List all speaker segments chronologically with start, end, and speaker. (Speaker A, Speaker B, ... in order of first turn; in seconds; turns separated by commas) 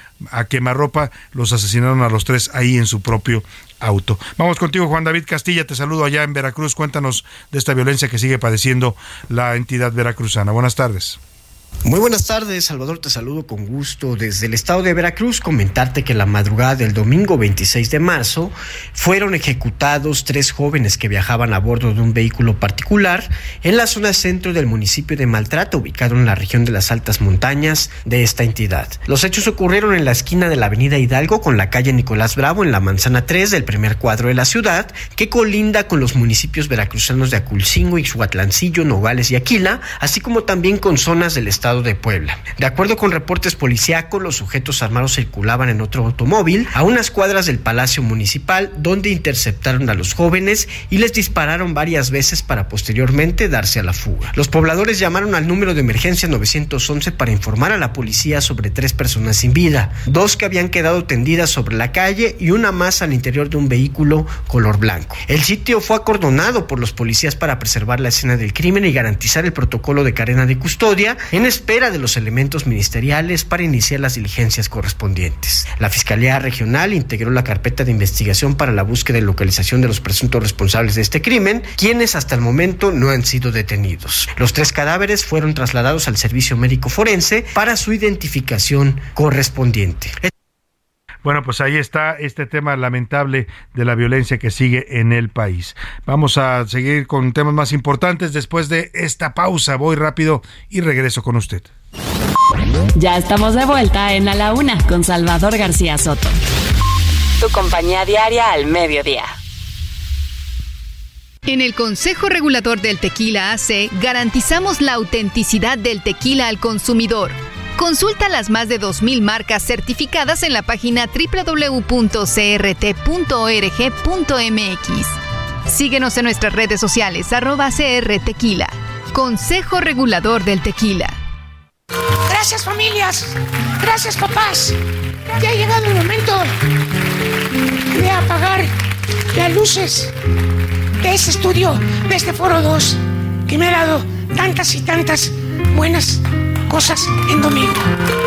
Speaker A: 0.3-11.2, Speaker B: 11.8-90.3, Speaker A: 91.2-101.7, Speaker C: 103.0-106.4, Speaker C: 107.4-109.3, Speaker D: 111.5-125.2, Speaker D: 125.7-131.2, Speaker E: 132.3-134.8, Speaker E: 135.3-136.5, Speaker E: 137.9-138.7, Speaker E: 139.3-140.1, Speaker E: 141.0-147.9